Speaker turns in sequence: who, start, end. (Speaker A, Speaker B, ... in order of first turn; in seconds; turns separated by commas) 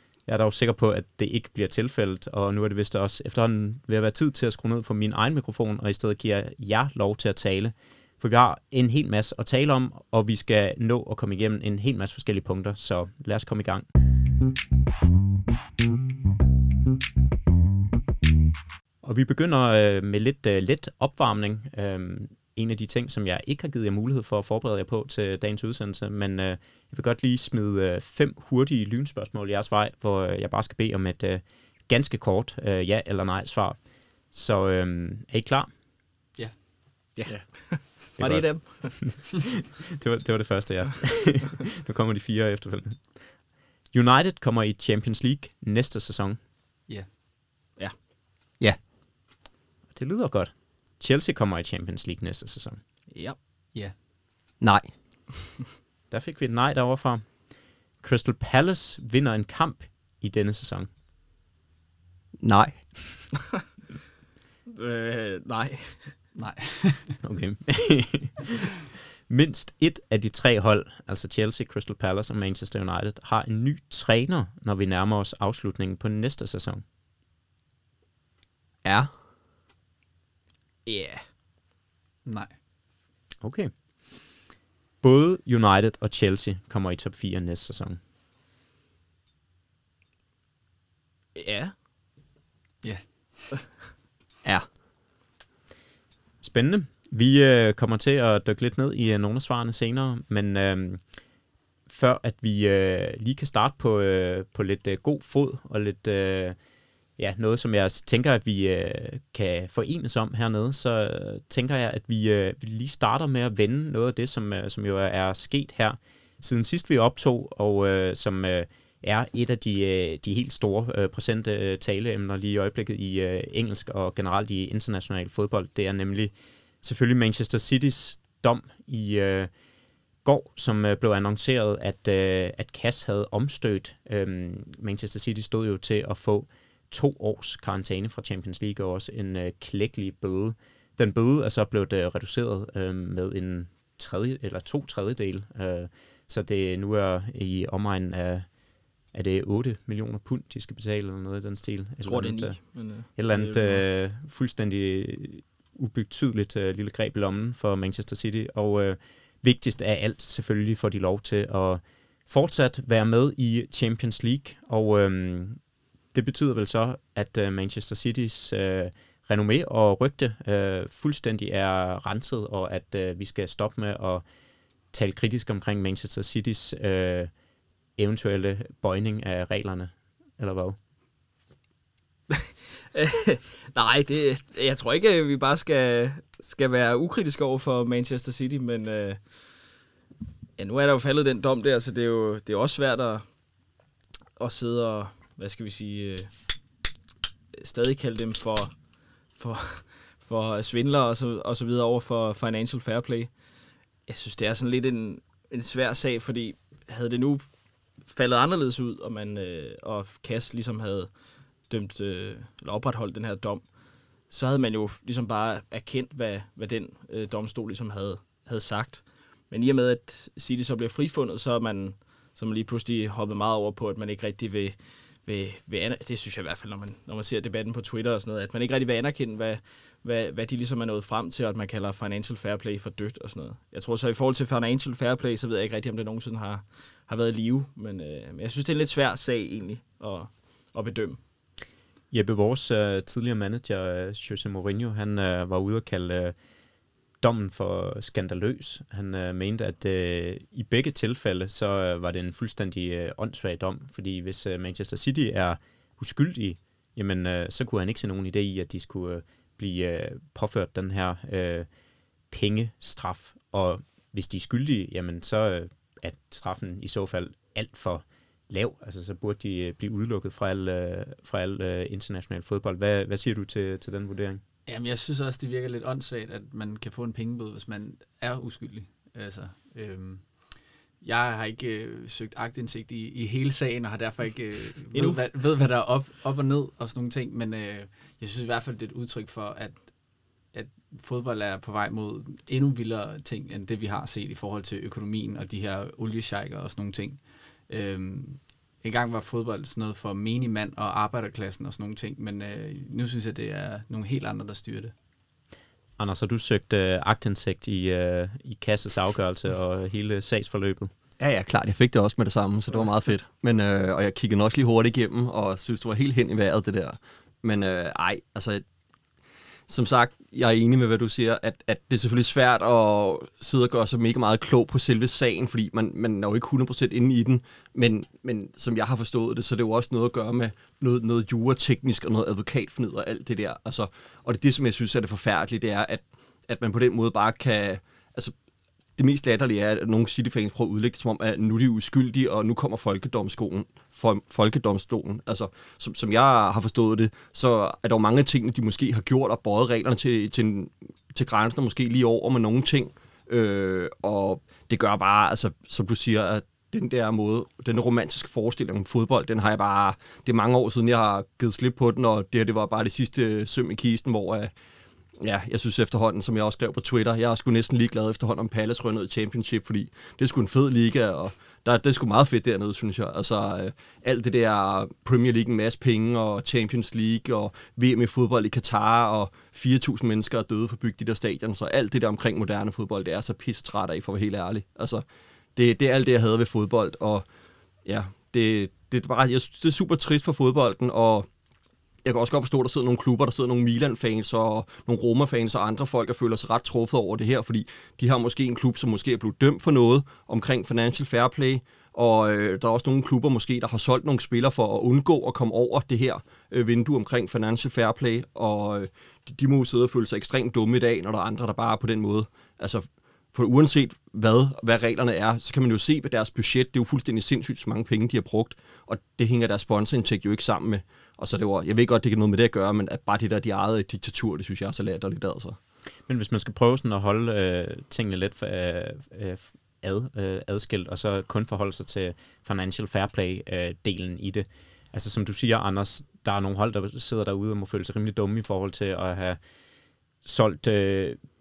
Speaker A: 0.3-13.8, Speaker A: 19.0-33.8, Speaker A: 34.3-35.7, Speaker B: 37.2-39.1, Speaker A: 38.2-43.0, Speaker A: 43.9-46.4, Speaker A: 49.9-52.8, Speaker C: 54.6-54.9, Speaker A: 56.1-57.2, Speaker A: 58.0-60.9, Speaker C: 62.4-62.8, Speaker B: 64.7-66.2, Speaker D: 66.4-67.2, Speaker A: 67.2-68.7, Speaker A: 69.3-76.8, Speaker C: 78.8-79.1, Speaker B: 80.9-81.2, Speaker D: 82.2-82.5, Speaker A: 83.4-83.7, Speaker A: 85.0-88.0, Speaker B: 91.3-91.7, Speaker D: 92.8-93.5, Speaker A: 96.4-101.0, Speaker A: 101.9-106.5, Speaker A: 107.2-129.5, Speaker A: 130.2-148.5, Speaker A: 149.1-165.6, Speaker B: 152.1-153.8, Speaker A: 166.1-174.2, Speaker A: 174.9-177.3, Speaker A: 178.0-180.8, Speaker B: 182.3-189.2, Speaker B: 190.6-193.2, Speaker B: 194.4-196.3, Speaker B: 197.6-198.7, Speaker B: 199.4-203.3, Speaker B: 204.1-207.4, Speaker B: 208.1-211.1, Speaker B: 211.7-213.6, Speaker B: 214.3-241.2, Speaker A: 242.1-246.3, Speaker A: 247.2-261.7, Speaker A: 262.3-274.4, Speaker D: 274.7-280.2, Speaker D: 281.0-289.8, Speaker B: 284.9-285.2, Speaker D: 290.5-304.9, Speaker A: 306.0-310.9, Speaker C: 311.2-318.6, Speaker C: 319.7-338.3, Speaker C: 338.9-364.5, Speaker C: 365.2-385.0, Speaker C: 385.6-387.2, Speaker C: 387.9-391.3, Speaker C: 392.0-425.6, Speaker A: 426.1-439.4, Speaker A: 440.2-441.2